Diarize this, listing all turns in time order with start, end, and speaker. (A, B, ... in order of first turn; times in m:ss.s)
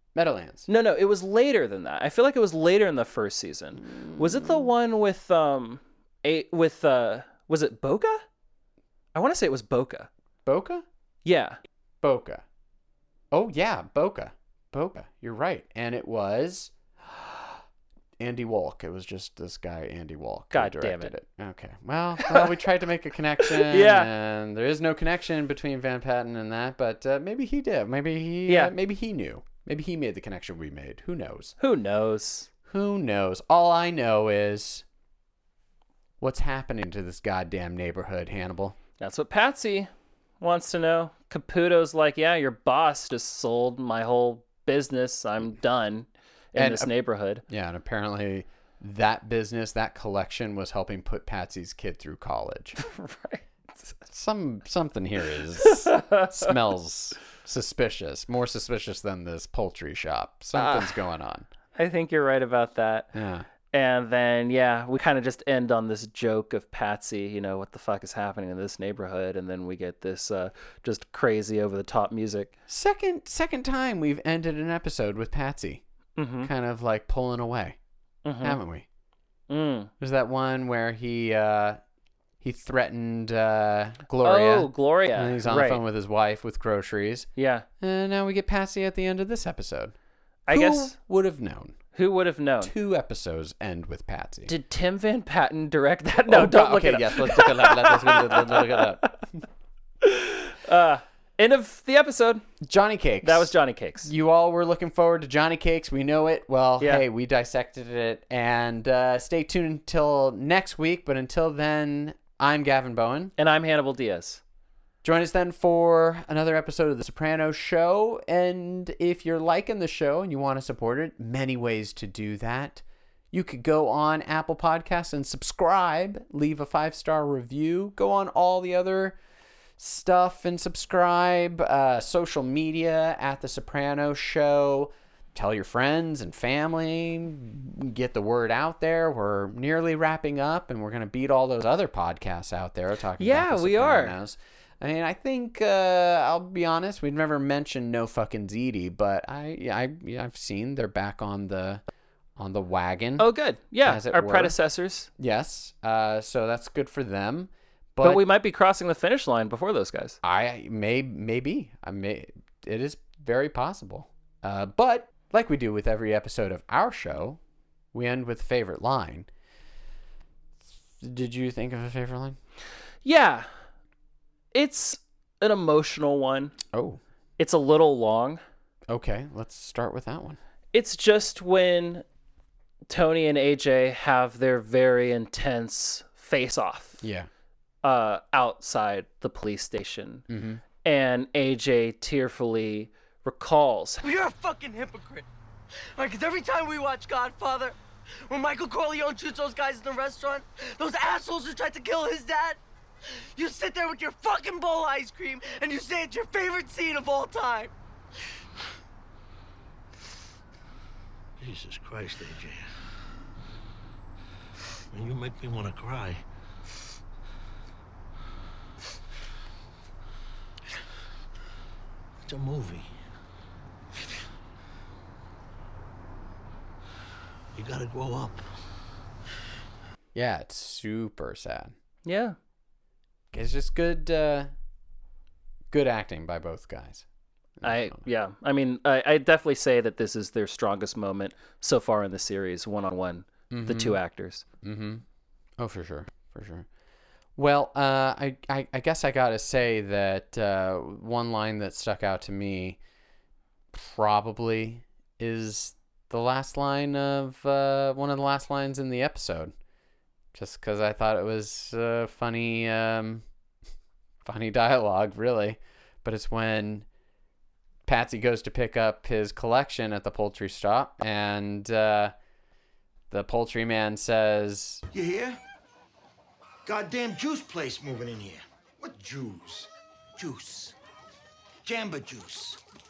0:00.2-0:00.7 A
0:00.7-0:08.2 B
0:03.8-0:04.7 A
0:09.1-0:10.1 B
0:10.4-0:10.8 A
0:11.2-0:11.6 B
0:12.0-0:12.4 A
0:13.3-0:17.6 A
0:18.2-0:31.6 A
0:20.5-0:21.1 B
0:22.2-0:22.5 B
0:23.4-0:24.1 B
0:28.5-0:28.7 B
0:31.6-0:32.5 B
0:32.7-0:34.8 A
0:36.2-0:38.8 A
0:39.0-0:39.9 B
0:40.4-0:47.4 B
0:46.6-0:46.9 A
0:47.5-0:52.8 A
0:52.8-0:53.9 B
0:54.1-1:01.5 A
0:55.6-0:56.5 B
1:00.5-1:01.0 B
1:01.8-1:03.1 B
1:03.1-1:03.5 A
1:03.7-1:12.5 B
1:12.7-1:15.8 A
1:16.2-1:16.5 B
1:16.4-1:17.8 A
1:18.2-1:18.6 B
1:18.4-1:18.9 A
1:19.5-1:19.9 B
1:20.0-1:21.8 A
1:22.4-1:27.3 A
1:24.2-1:25.8 B
1:27.4-1:27.7 B
1:27.8-1:29.9 A
1:30.5-1:31.0 B
1:30.5-1:31.8 A
1:31.9-1:32.7 B
1:32.6-1:34.5 A
1:34.5-1:39.2 B
1:36.3-1:39.2 A
1:40.0-1:42.4 B
1:42.6-1:53.3 A
1:43.2-1:44.1 B
1:53.4-1:54.4 B
1:55.0-2:09.2 A
2:09.8-2:31.8 A
2:23.2-2:24.2 B
2:32.4-2:33.3 A
2:33.2-2:35.1 B
2:33.8-2:34.6 A
2:35.2-2:38.2 A
2:38.0-2:40.2 B
2:40.2-2:47.4 A
2:47.9-2:49.3 A
2:51.0-2:52.4 A
2:53.0-2:53.5 B
2:54.5-2:56.5 B
2:56.7-2:57.0 A
2:57.4-2:58.4 B
2:58.9-3:00.4 A
3:00.7-3:02.0 B
3:02.9-3:07.0 B
3:07.0-3:07.3 A
3:07.8-3:10.2 B
3:10.3-3:10.6 A
3:10.8-3:14.0 B
3:14.0-3:15.3 C
3:16.0-3:27.7 C
3:31.4-3:32.7 D
3:34.9-3:36.2 D
3:42.2-3:42.9 D
3:47.6-3:48.4 D
3:50.2-3:51.8 A
3:52.0-3:52.4 B
3:53.3-3:54.5 A
3:55.7-3:57.0 A
3:57.6-3:58.0 A
3:57.6-4:04.4 B
4:03.5-4:04.0 A
4:04.6-4:05.0 A
4:05.6-4:06.7 A
4:07.4-4:12.8 A
4:13.7-4:19.5 A
4:20.3-4:23.2 A
4:24.2-4:26.9 A
4:27.9-4:32.1 A
4:33.1-4:34.8 A
4:34.9-4:35.4 E
4:36.7-4:40.8 E
4:41.6-4:42.6 E